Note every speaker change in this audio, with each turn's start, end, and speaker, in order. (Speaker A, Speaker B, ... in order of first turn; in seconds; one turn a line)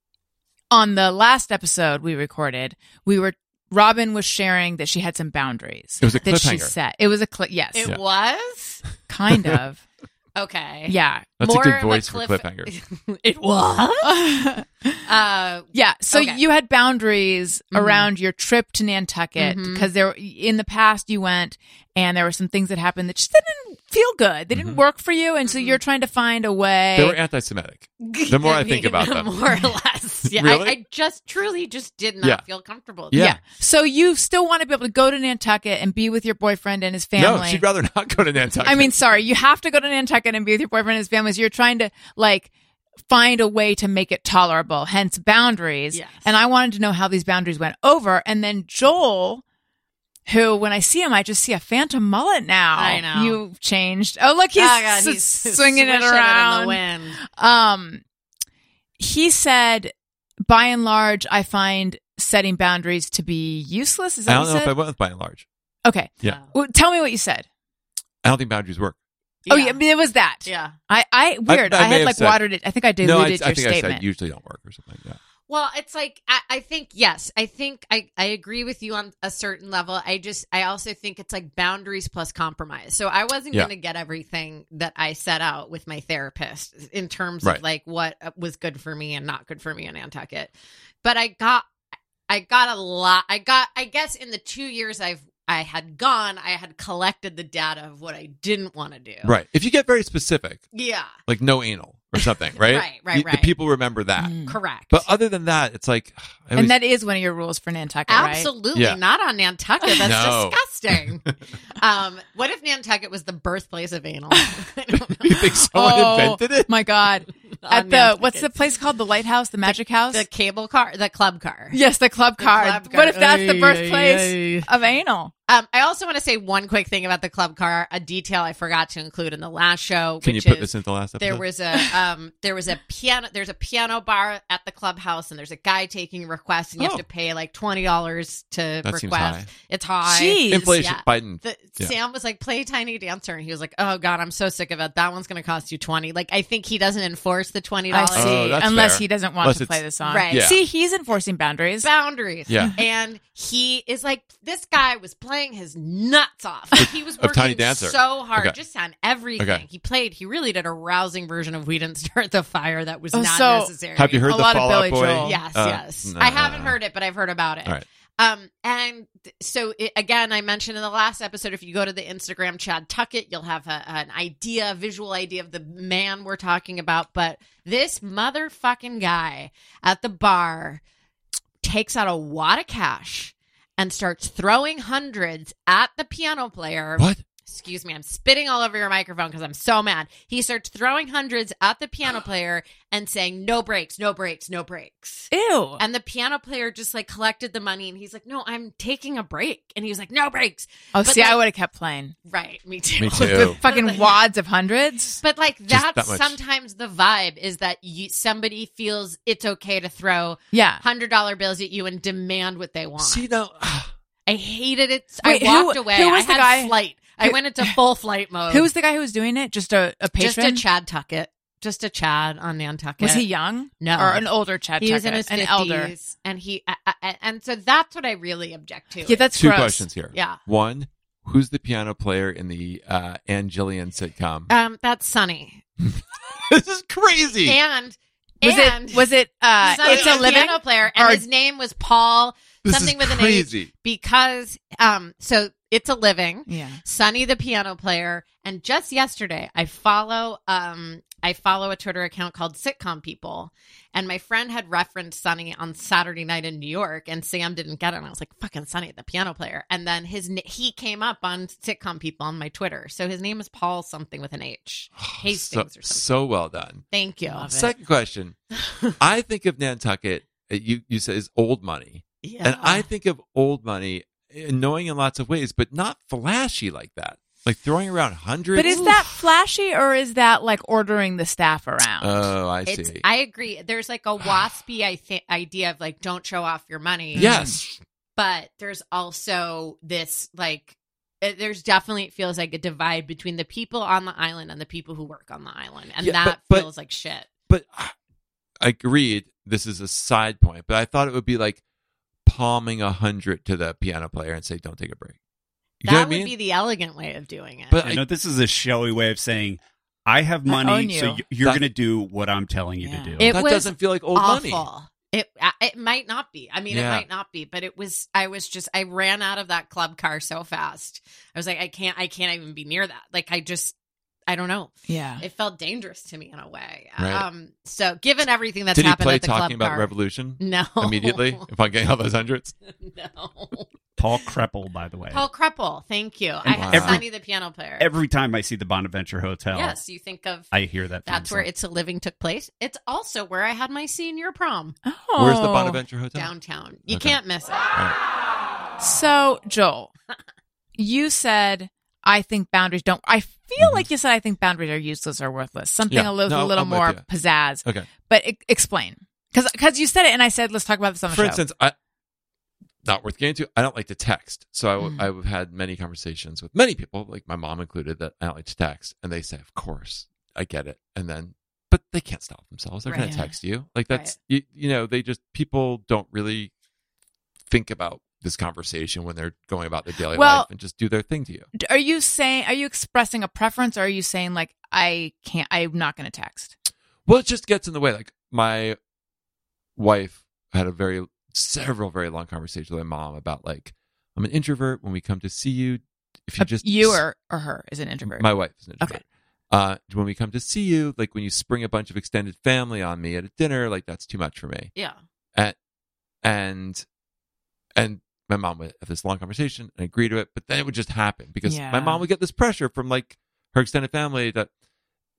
Speaker A: 0.7-7.9
Speaker B: 6.0-6.7
Speaker C: 7.7-8.8
Speaker A: 9.1-9.8
Speaker B: 9.3-9.6
Speaker C: 10.3-14.2
Speaker A: 10.9-11.3
Speaker B: 11.4-12.7
Speaker A: 14.0-15.0
Speaker C: 15.0-16.4
Speaker A: 15.7-27.2
Speaker C: 17.7-18.1
Speaker C: 19.4-19.9
Speaker B: 24.5-24.8
Speaker C: 25.5-25.8
Speaker B: 26.9-29.3
Speaker C: 28.0-33.2
Speaker B: 30.3-30.8
Speaker B: 33.1-33.4
Speaker A: 33.1-37.6
Speaker B: 37.2-38.9
Speaker A: 38.6-42.5
Speaker A: 43.1-49.4
Speaker C: 45.9-46.3
Speaker A: 50.3-58.0
Speaker C: 52.7-53.4
Speaker C: 54.5-57.2
Speaker A: 59.0-59.9
Speaker A: 60.4-64.7
Speaker B: 64.3-65.5
Speaker A: 65.8-67.5
Speaker C: 66.2-66.5
Speaker B: 68.2-69.0
Speaker C: 69.5-69.8
Speaker A: 69.5-74.0
Speaker C: 70.4-70.7
Speaker B: 71.5-72.4
Speaker B: 73.0-75.2
Speaker C: 75.5-90.5
Speaker C: 91.0-91.7
Speaker C: 92.3-99.3
Speaker B: 99.2-100.6
Speaker C: 100.7-101.2
Speaker B: 101.2-104.4
Speaker C: 102.6-103.5
Speaker A: 104.2-104.5
Speaker C: 104.5-105.0
Speaker B: 104.9-106.7
Speaker A: 106.5-108.5
Speaker C: 108.1-115.5
Speaker B: 108.7-109.0
Speaker B: 110.0-111.0
Speaker B: 115.1-116.7
Speaker A: 115.7-120.2
Speaker C: 117.6-118.5
Speaker C: 119.7-121.8
Speaker A: 121.7-125.3
Speaker C: 122.4-124.7
Speaker C: 125.5-148.6
Speaker B: 130.2-131.4
Speaker B: 136.8-137.0
Speaker B: 138.8-139.5
Speaker A: 140.0-140.7
Speaker B: 140.5-141.9
Speaker A: 147.9-151.9
Speaker B: 148.1-150.6
Speaker C: 150.0-150.5
Speaker C: 151.8-164.3
Speaker B: 152.5-152.7
Speaker B: 156.8-158.6
Speaker B: 159.4-159.6
Speaker A: 163.1-163.7
Speaker B: 163.9-166.8
Speaker A: 164.2-165.4
Speaker C: 165.2-180.8
Speaker C: 181.6-201.4
Speaker B: 187.0-187.2
Speaker A: 195.3-195.8
Speaker A: 200.9-202.1
Speaker C: 202.3-204.2
Speaker B: 203.0-203.6
Speaker A: 203.2-205.2
Speaker C: 205.2-213.2
Speaker B: 205.7-206.4
Speaker A: 210.5-210.8
Speaker B: 213.0-213.9
Speaker C: 214.3-218.7
Speaker A: 215.2-217.7
Speaker A: 218.5-220.6
Speaker C: 220.2-223.2
Speaker A: 223.0-225.9
Speaker C: 223.8-224.3
Speaker C: 224.8-229.3
Speaker A: 229.1-229.9
Speaker B: 229.3-234.5
Speaker C: 230.1-230.4
Speaker C: 234.5-235.6
Speaker B: 235.8-237.6
Speaker C: 237.4-239.1
Speaker A: 238.4-241.2
Speaker C: 239.6-266.1
Speaker B: 239.8-240.5
Speaker B: 242.6-243.7
Speaker A: 246.5-246.8
Speaker B: 265.0-268.4
Speaker C: 266.9-267.7
Speaker C: 268.7-268.9
Speaker B: 269.0-279.1
Speaker C: 272.2-272.9
Speaker A: 278.5-282.1
Speaker C: 278.7-278.9
Speaker B: 282.0-283.0
Speaker C: 282.6-287.4
Speaker A: 287.1-287.6
Speaker B: 287.1-287.8
Speaker C: 288.1-297.3
Speaker B: 296.0-296.7
Speaker B: 297.5-297.9
Speaker B: 298.6-301.6
Speaker B: 302.2-305.1
Speaker B: 305.8-306.3
Speaker C: 305.8-307.9
Speaker B: 307.7-308.0
Speaker D: 307.8-313.4
Speaker A: 310.5-311.2
Speaker A: 312.8-313.2
Speaker C: 313.2-323.7
Speaker B: 313.2-314.6
Speaker B: 316.7-317.1
Speaker C: 324.3-331.4
Speaker A: 324.9-325.2
Speaker B: 327.0-327.3
Speaker B: 328.7-332.5
Speaker C: 332.8-333.7
Speaker D: 334.0-335.2
Speaker C: 335.1-337.9
Speaker D: 336.5-337.1
Speaker B: 336.5-337.0
Speaker D: 337.8-339.8
Speaker C: 339.5-340.5
Speaker D: 340.5-341.5
Speaker C: 341.1-344.8
Speaker A: 344.8-345.8
Speaker B: 345.2-346.3
Speaker C: 346.1-347.7
Speaker B: 346.9-347.2
Speaker A: 348.8-349.9
Speaker A: 350.8-361.4
Speaker B: 353.6-353.9
Speaker B: 355.9-357.1
Speaker B: 357.6-357.9
Speaker B: 361.1-361.7
Speaker B: 362.8-376.5
Speaker A: 364.8-365.1
Speaker C: 372.9-373.1
Speaker A: 372.9-373.3
Speaker B: 377.5-381.5
Speaker A: 380.1-380.5
Speaker A: 381.6-386.5
Speaker B: 387.1-388.8
Speaker B: 389.8-397.0
Speaker A: 396.4-399.0
Speaker B: 398.1-404.7
Speaker B: 406.2-406.8
Speaker B: 407.8-414.5
Speaker A: 411.4-412.0